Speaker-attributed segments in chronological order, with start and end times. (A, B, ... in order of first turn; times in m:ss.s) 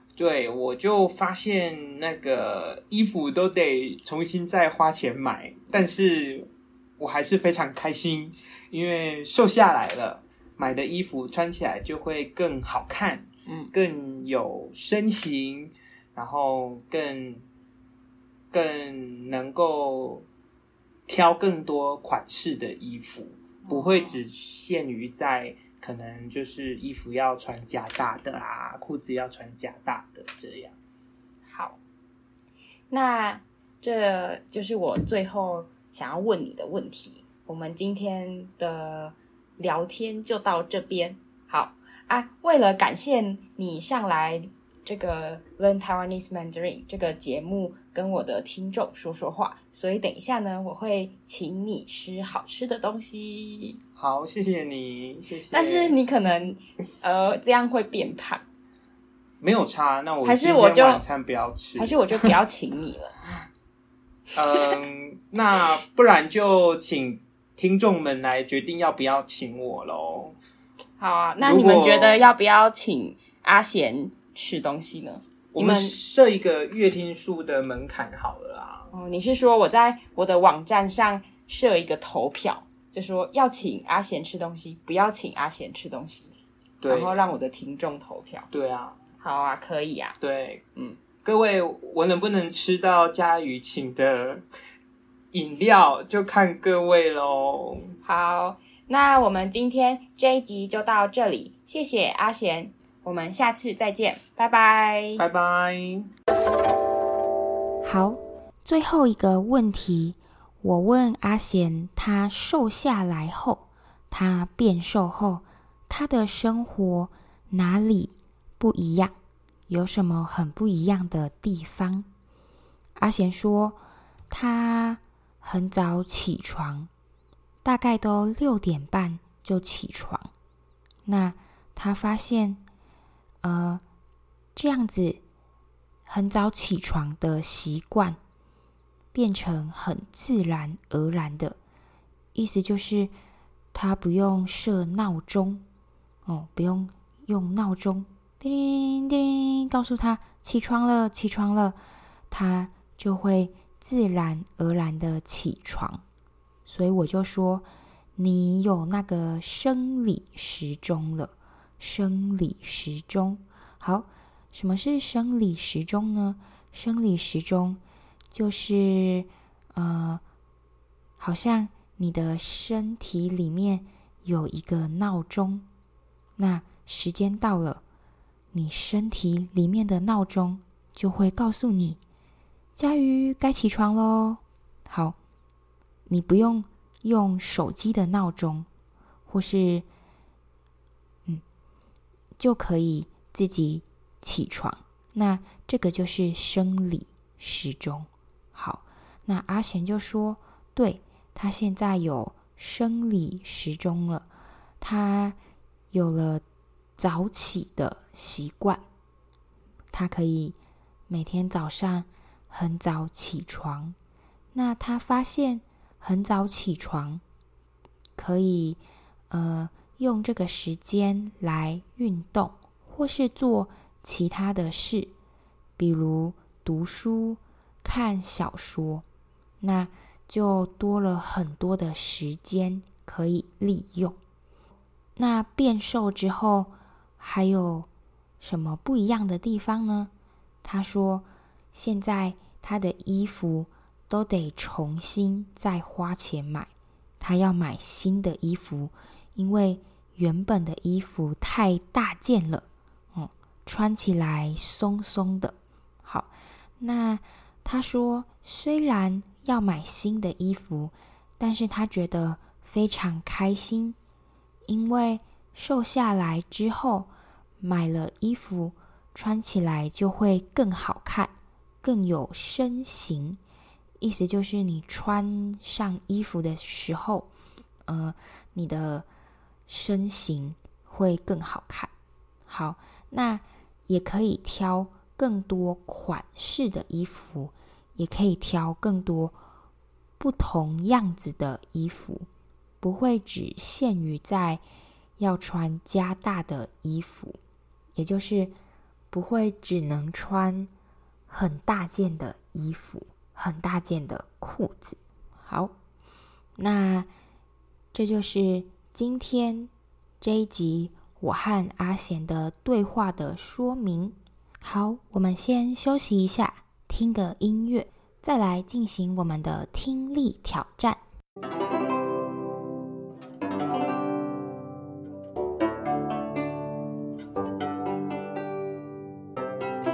0:00.2-0:17.4 A
0:18.5-0:20.2 A
0:21.1-0:30.8 A
0:23.6-0:24.2 B
0:31.5-0:31.8 B
0:32.9-0:53.8 B
0:54.0-0:56.0 A
0:55.5-0:58.4 B
0:59.4-1:02.3 A
1:00.2-1:01.0 B
1:01.8-1:03.2 B
1:04.3-1:10.4 A
1:11.0-1:16.0 B
1:11.4-1:12.2 A
1:15.5-1:18.9 A
1:18.9-1:26.3 B
1:26.8-1:27.3 A
1:26.8-1:28.5 B
1:28.5-1:29.0 A
1:29.2-1:30.2 B
1:30.2-1:30.6 A
1:31.2-1:34.4 A
1:35.3-1:38.0 A
1:38.0-1:45.2 B
1:45.2-1:46.1 A
1:47.8-1:59.2 C
1:59.7-2:02.1 C
2:03.0-2:06.9 C
2:07.6-2:10.3 C
2:11.0-2:12.6 C
2:13.4-2:13.8 C
2:14.6-2:15.2 C
2:16.0-2:18.2 C
2:19.1-2:21.6 C
2:22.3-2:23.1 C
2:23.7-2:25.6 C
2:26.2-2:31.8 C
2:32.3-2:36.0 C
2:36.7-2:37.6 C
2:38.2-2:47.8 C
2:48.3-2:50.2 C
2:51.2-2:55.6 C
2:56.4-2:57.8 C
2:58.5-3:02.0 C
3:02.8-3:05.2 C
3:06.1-3:08.7 C
3:09.3-3:09.8 C
3:12.4-3:24.3 C
3:24.8-3:25.4 C
3:25.9-3:26.4 C
3:27.0-3:28.8 C
3:29.9-3:30.6 C
3:31.1-3:34.0 C
3:34.5-3:37.2 C
3:38.2-3:38.8 C
3:39.3-3:45.1 C
3:45.8-3:49.0 C
3:49.6-3:54.2 C
3:55.2-3:57.9 C
3:58.4-4:00.1 C
4:00.6-4:24.0 C
4:24.6-4:27.1 C
4:27.6-4:33.4 C
4:34.0-4:37.3 C
4:37.9-4:39.0 C
4:39.7-4:41.9 C
4:42.5-4:49.4 C
4:50.2-4:52.3 C
4:52.8-4:54.6 C
4:55.2-4:57.4 C
4:57.9-4:58.5 C
4:59.1-5:00.7 C
5:01.3-5:05.7 C
5:06.6-5:07.1 C
5:07.9-5:21.0 C